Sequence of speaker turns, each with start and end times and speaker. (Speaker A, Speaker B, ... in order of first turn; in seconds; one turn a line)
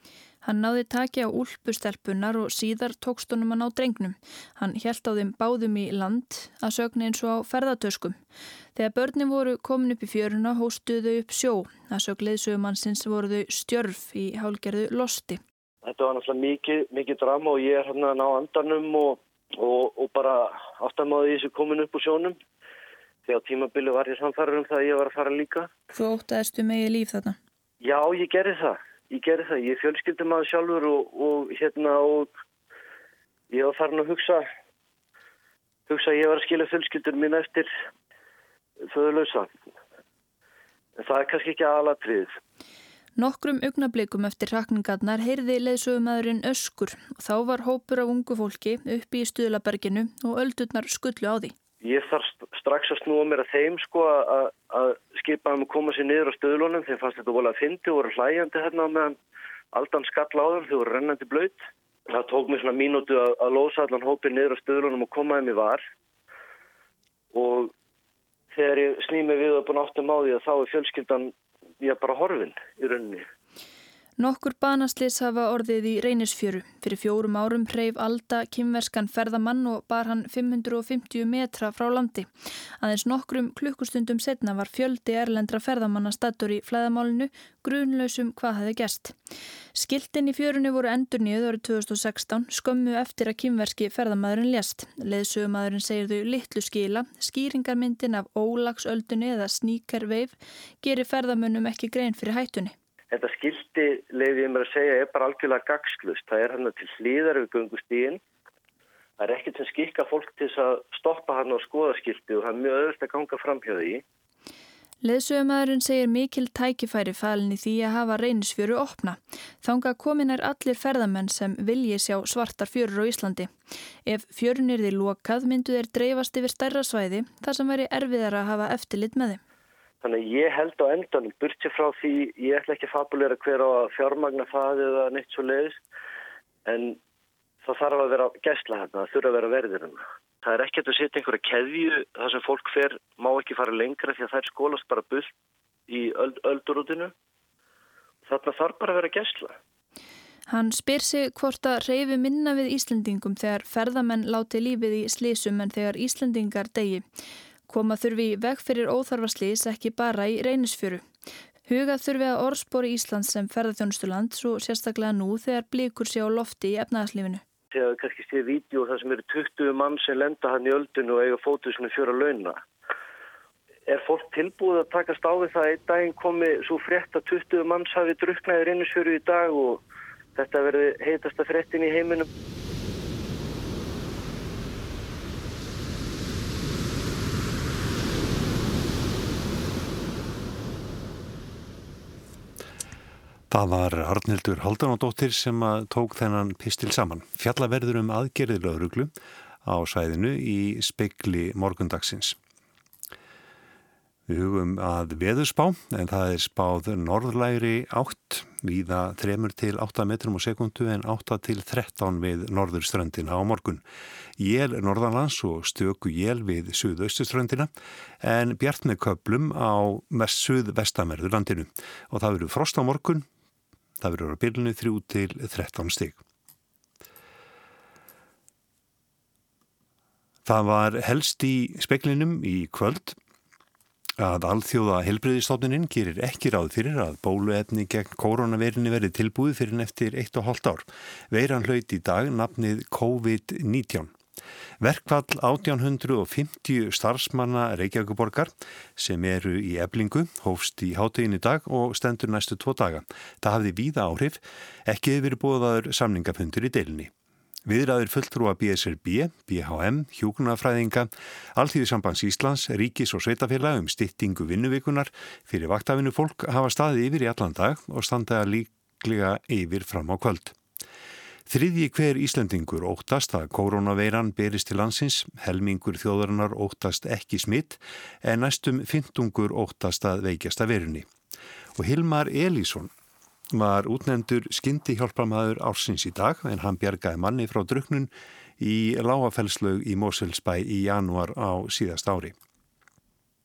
Speaker A: 0.4-8.2
Speaker A: 8.8-15.4
Speaker B: 15.8-22.4
Speaker B: 23.2-25.7
Speaker A: 25.9-27.4
Speaker B: 27.8-32.3
Speaker B: 33.5-34.5
Speaker B: 35.9-37.7
Speaker B: 38.9-39.5
Speaker B: 41.0-42.4
Speaker A: 43.2-51.5
Speaker B: 51.8-59.2
Speaker B: 59.7-65.8
Speaker B: 67.3-67.7
Speaker B: 68.5-73.3
Speaker A: 74.2-82.3
Speaker A: 82.8-89.2
Speaker A: 89.7-102.7
Speaker B: 103.1-108.2
Speaker B: 109.2-114.0
Speaker A: 115.0-123.5
Speaker A: 124.1-129.4
Speaker B: 130.0-135.8
Speaker B: 136.7-137.0
Speaker B: 137.6-145.3
Speaker B: 145.9-147.1
Speaker B: 148.3-149.6
Speaker A: 150.5-157.1
Speaker A: 157.7-161.1
Speaker A: 161.7-167.4
Speaker B: 167.7-172.6
Speaker B: 173.9-179.8
Speaker B: 180.4-182.3
Speaker C: 193.5-199.1
Speaker C: 199.7-202.4
Speaker C: 204.3-213.8
Speaker C: 214.4-217.7
Speaker C: 218.2-223.3
Speaker C: 224.0-226.2
Speaker C: 230.4-233.2
Speaker C: 234.2-244.1
Speaker C: 244.8-257.1
Speaker C: 257.7-270.6
Speaker C: 271.5-281.1
Speaker C: 281.8-282.9
Speaker C: 283.5-292.4